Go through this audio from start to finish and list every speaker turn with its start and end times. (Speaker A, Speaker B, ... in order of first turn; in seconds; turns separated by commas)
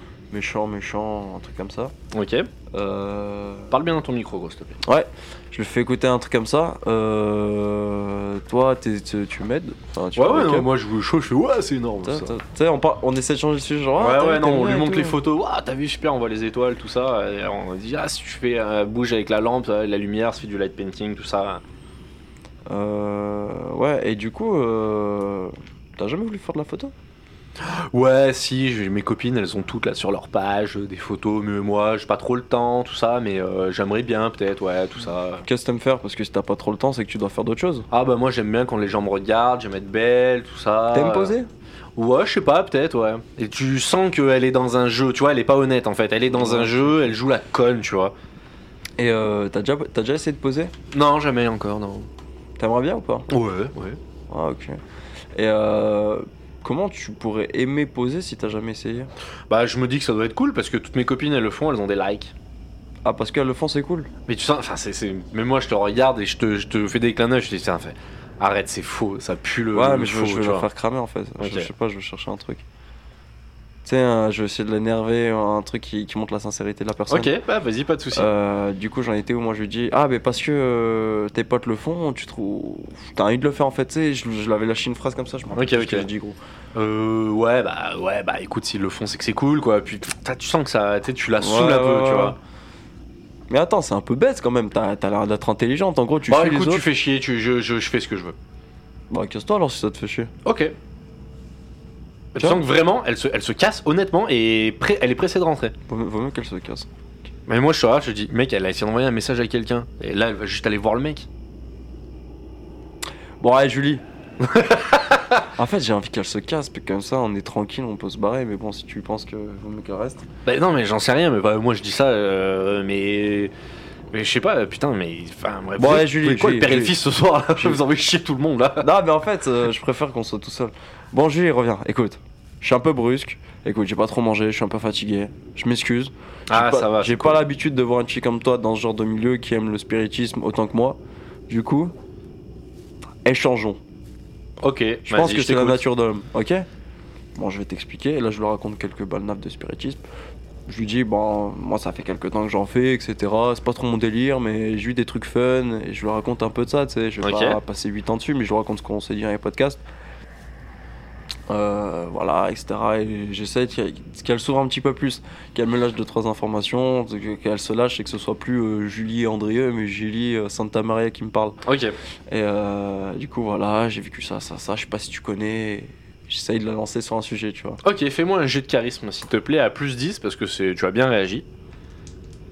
Speaker A: 0.3-1.9, Speaker B: 2.1-2.5, Speaker A: 2.7-3.7, Speaker B: 3.7-4.8, Speaker A: 4.8-10.7, Speaker B: 10.2-12.3, Speaker A: 12.0-15.2, Speaker B: 14.0-21.6, Speaker A: 22.7-26.9, Speaker B: 27.6-35.5, Speaker A: 35.5-37.9, Speaker B: 37.9-41.3, Speaker A: 40.9-41.5, Speaker B: 42.0-48.1, Speaker A: 46.3-47.1, Speaker A: 49.0-50.7, Speaker B: 50.9-52.1, Speaker A: 52.6-53.3, Speaker B: 53.3-54.0, Speaker A: 54.3-54.8, Speaker A: 55.3-59.1, Speaker B: 59.5-62.3, Speaker A: 63.0-64.1, Speaker B: 64.3-70.7, Speaker A: 69.7-72.6, Speaker B: 71.4-71.7, Speaker A: 73.8-77.3, Speaker B: 77.1-78.3, Speaker A: 78.1-86.4, Speaker B: 85.5-86.1, Speaker B: 86.7-92.4, Speaker A: 91.4-92.4, Speaker A: 93.5-96.8, Speaker B: 96.3-98.3, Speaker A: 99.1-100.3, Speaker B: 100.4-100.7, Speaker B: 102.3-105.7, Speaker A: 105.9-106.9, Speaker B: 107.5-111.3, Speaker A: 113.4-114.0, Speaker B: 114.4-115.4, Speaker A: 115.5-120.2, Speaker B: 120.4-123.5, Speaker B: 124.1-128.9, Speaker A: 125.8-127.0, Speaker A: 128.8-141.9, Speaker B: 136.5-137.4, Speaker A: 143.2-143.8, Speaker B: 144.6-145.8, Speaker A: 145.1-146.7, Speaker A: 147.3-150.0, Speaker A: 150.7-159.8, Speaker B: 157.2-157.6, Speaker A: 161.5-171.6, Speaker B: 171.6-171.9, Speaker A: 172.3-177.8, Speaker B: 177.8-181.4